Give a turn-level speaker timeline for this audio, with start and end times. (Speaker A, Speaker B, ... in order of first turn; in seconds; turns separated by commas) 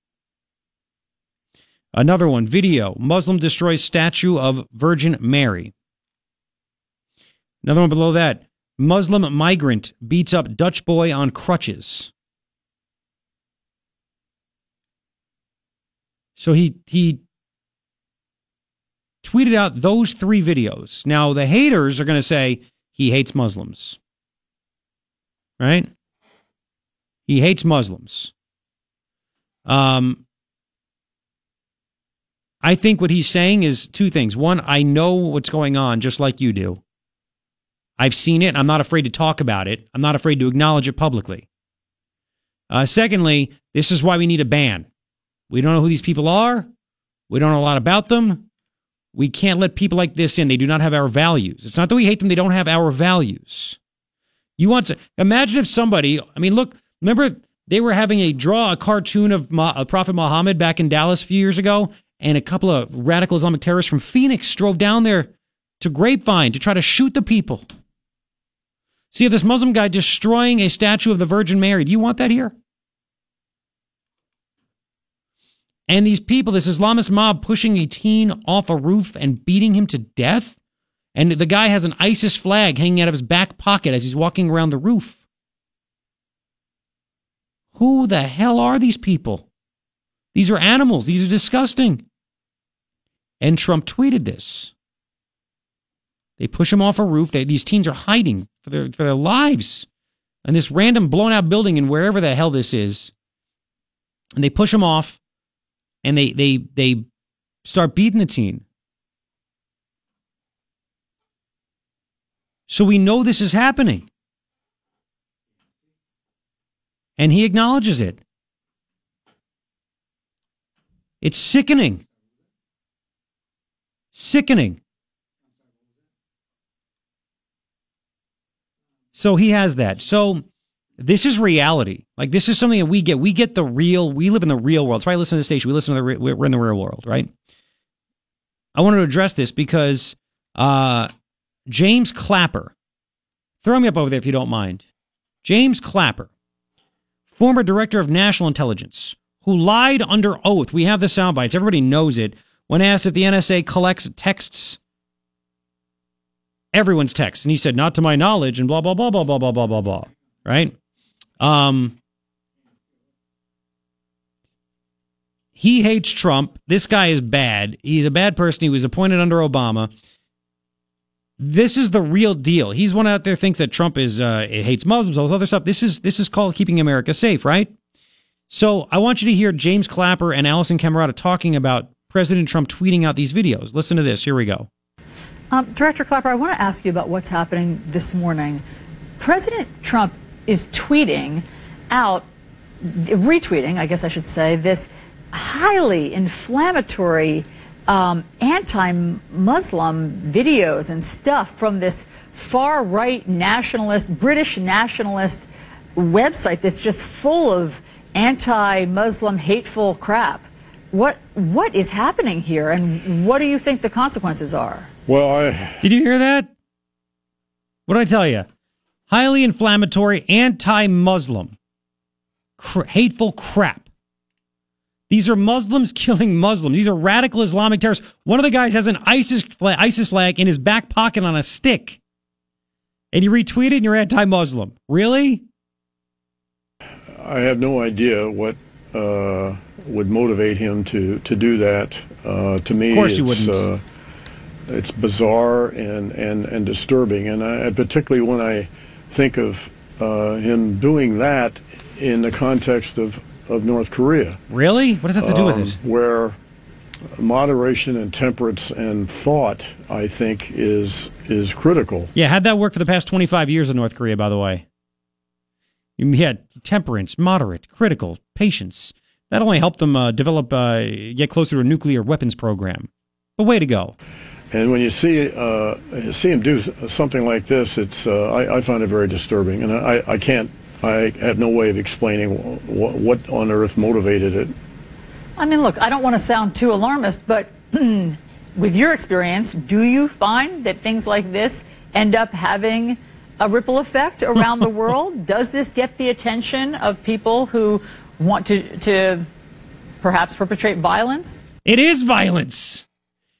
Speaker A: 1.9-5.7, Speaker A: 7.6-12.1, Speaker A: 16.4-17.2, Speaker A: 19.2-24.0, Speaker A: 25.6-25.9, Speaker A: 27.3-28.3, Speaker A: 29.6-30.2, Speaker A: 32.6-36.8, Speaker A: 38.0-41.5, Speaker A: 42.7-44.9, Speaker A: 45.5-46.7, Speaker A: 47.3-48.4, Speaker A: 49.1-53.8, Speaker A: 54.6-65.3, Speaker A: 65.8-67.7, Speaker A: 69.1-72.5, Speaker A: 75.9-80.6, Speaker A: 81.1-85.2, Speaker A: 87.7-89.5, Speaker A: 90.3-92.0, Speaker A: 93.4-94.7, Speaker A: 96.4-99.9, Speaker A: 100.4-103.1, Speaker A: 104.3-105.2, Speaker A: 106.0-107.0, Speaker A: 107.6-108.6, Speaker A: 112.7-114.0, Speaker A: 117.2-118.2, Speaker A: 121.2-122.0, Speaker A: 124.1-124.8, Speaker A: 129.1-130.4, Speaker A: 131.0-137.3, Speaker A: 138.7-141.1, Speaker A: 141.7-142.7, Speaker A: 143.6-144.8, Speaker A: 145.4-146.3, Speaker A: 147.3-154.8, Speaker A: 156.7-160.7, Speaker A: 161.4-161.9, Speaker A: 165.6-169.9, Speaker A: 171.4-177.7, Speaker A: 178.5-184.7, Speaker B: 185.5-188.6, Speaker B: 189.2-192.3, Speaker B: 192.8-214.9, Speaker C: 215.1-215.8, Speaker A: 215.8-216.5, Speaker A: 217.9-218.5, Speaker A: 219.1-221.6, Speaker A: 222.6-223.9, Speaker A: 225.1-232.0, Speaker A: 233.1-235.4, Speaker C: 237.2-243.8, Speaker A: 242.9-243.7, Speaker C: 244.7-254.4, Speaker A: 254.5-255.8, Speaker C: 255.2-256.4, Speaker C: 257.2-262.1, Speaker A: 262.1-264.6, Speaker A: 266.0-273.9, Speaker C: 274.5-284.5, Speaker B: 285.4-299.3, Speaker B: 300.0-301.4, Speaker A: 301.6-302.8